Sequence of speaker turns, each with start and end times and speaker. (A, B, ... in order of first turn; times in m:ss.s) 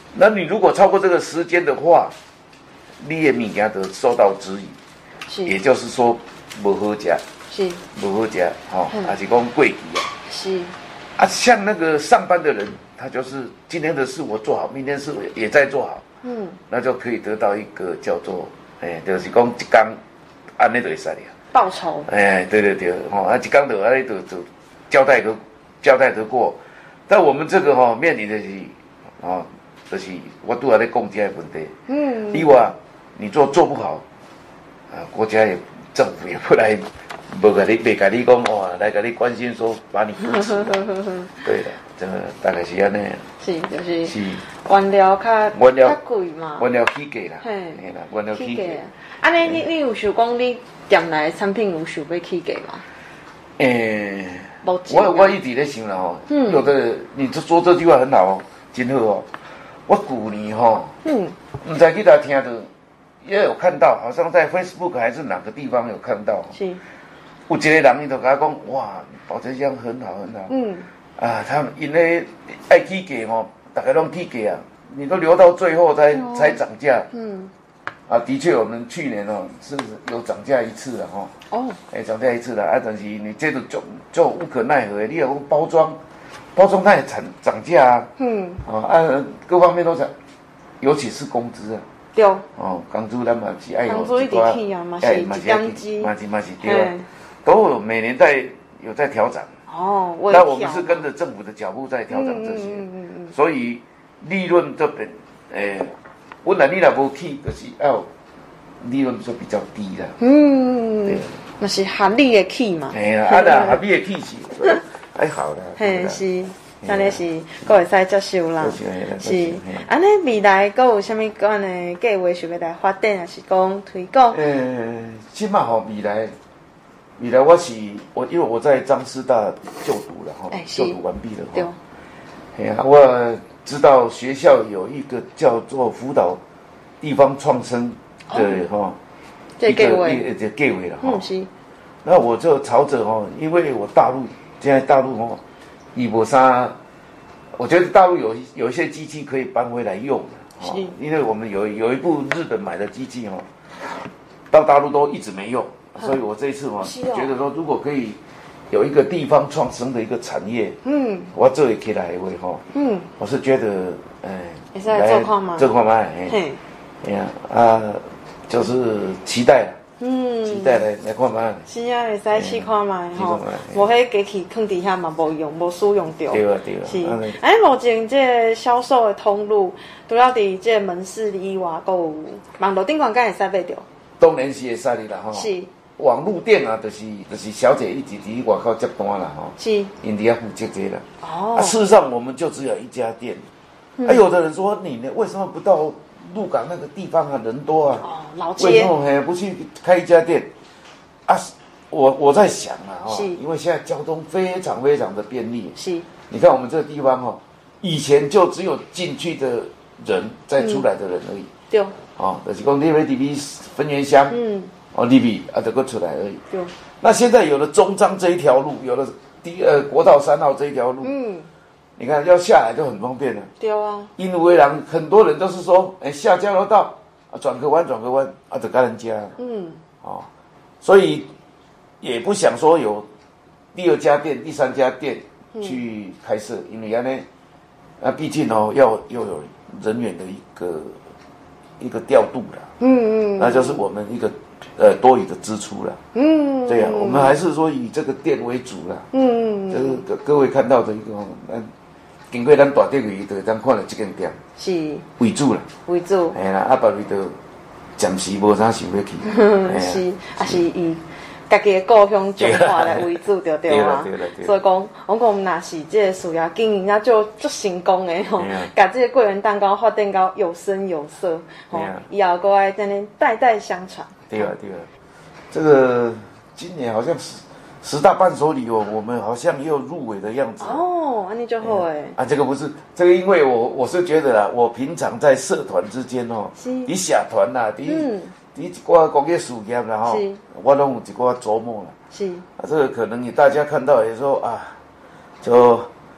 0:00.1-0:02.1 A
0:03.0-0:04.8 A
0:05.3-0:05.5 B
0:05.4-0:07.2 A
0:07.5-0:07.8 B
0:07.9-0:10.1 A
0:10.2-0:10.8 B
0:11.2-0:16.0 A
0:16.2-0:16.6 B
0:16.7-0:20.0 A
0:20.6-0:21.3 A
0:21.5-0:22.1 B
0:22.0-0:31.7 A
0:31.9-0:32.6 B
0:32.3-0:34.0 A
0:34.9-0:43.2 A
0:40.2-0:41.4 B
0:43.4-0:46.6 B
0:44.0-0:44.4 A
0:45.5-0:46.0 A
0:46.6-0:48.8 A
0:47.4-0:47.8 B
0:48.3-0:52.8 B
0:53.6-0:59.3 A
0:54.6-0:55.4 B
0:56.3-0:56.7 B
0:59.9-1:00.9 A
1:01.0-1:01.4 B
1:01.6-1:02.7 A
1:03.2-1:06.6 A
1:06.5-1:06.8 B
1:07.5-1:10.5 A
1:10.5-1:10.9 B
1:11.2-1:17.1 A
1:16.1-1:16.6 B
1:17.1-1:17.5 B
1:18.1-1:21.3 A
1:21.5-1:21.8 B
1:21.9-1:26.0 A
1:26.5-1:28.1 A
1:28.2-1:28.6 B
1:28.6-1:30.1 A
1:30.8-1:31.8 A
1:32.1-1:32.4 B
1:32.6-1:39.5 A
1:33.8-1:36.1 B
1:36.6-1:37.1 B
1:39.7-1:41.0 B
1:40.3-1:48.1 A
1:42.1-1:43.3 B
1:48.8-1:50.2 A
1:50.2-1:53.8 B
1:51.1-1:51.3 A
1:52.9-1:56.2 A
1:55.8-2:04.4 B
1:56.8-1:57.2 A
1:58.6-1:59.9 A
2:04.3-2:06.3 A
2:07.2-2:11.7 A
2:10.5-2:11.0 B
2:12.5-2:16.4 A
2:17.0-2:19.0 A
2:18.3-2:18.6 B
2:19.6-2:20.2 B
2:19.6-2:21.2 A
2:21.0-2:21.5 B
2:22.0-2:25.4 A
2:25.9-2:26.8 A
2:27.5-2:33.5 A
2:30.6-2:30.9 B
2:34.5-2:40.8 A
2:36.8-2:37.3 B
2:40.8-2:41.3 B
2:41.3-2:42.6 A
2:42.7-2:43.1 B
2:43.2-2:46.4 A
2:44.7-2:45.7 B
2:46.3-2:46.6 B
2:47.0-2:49.8 A
2:50.0-2:50.8 B
2:50.4-2:51.6 A
2:51.6-3:03.8 B
2:52.3-2:53.8 A
2:56.3-2:57.4 A
3:04.2-3:13.4 A
3:05.3-3:05.7 B
3:09.6-3:09.9 B
3:11.2-3:11.8 B
3:14.0-3:18.0 A
3:18.0-3:18.9 B
3:18.6-3:20.5 A
3:21.2-3:25.7 A
3:23.1-3:23.4 B
3:25.8-3:26.1 B
3:26.3-3:31.5 A
3:30.6-3:30.8 B
3:31.7-3:32.0 B
3:32.2-3:34.4 A
3:34.3-3:34.7 B
3:34.9-3:36.4 A
3:37.0-3:41.1 A
3:41.0-3:41.5 B
3:42.0-3:43.5 A
3:43.6-3:44.1 B
3:44.2-3:49.3 A
3:49.4-3:49.8 B
3:50.0-3:50.3 A
3:50.8-3:51.3 A
3:52.0-3:53.1 A
3:53.7-3:57.2 A
3:58.0-4:01.0 A
4:01.8-4:02.7 A
4:02.8-4:03.8 B
4:03.4-4:06.0 A
4:06.1-4:07.4 B
4:06.6-4:09.1 A
4:09.1-4:10.0 B
4:09.7-4:11.7 A
4:12.3-4:14.4 A
4:14.6-4:15.0 B
4:15.2-4:15.7 A
4:15.8-4:16.4 B
4:16.3-4:17.4 A
4:18.0-4:20.6 A
4:19.2-4:34.5 B
4:22.4-4:23.1 A
4:23.7-4:24.5 A
4:28.4-4:28.7 A
4:31.7-4:32.0 A
4:34.3-4:34.9 A
4:35.5-4:40.8 A
4:40.6-4:42.2 B
4:41.6-4:51.9 A
4:46.6-4:46.9 B
4:47.8-4:48.3 B
4:50.1-4:50.4 B
4:52.1-4:52.4 B
4:52.6-4:54.8 A
4:55.4-4:55.9 A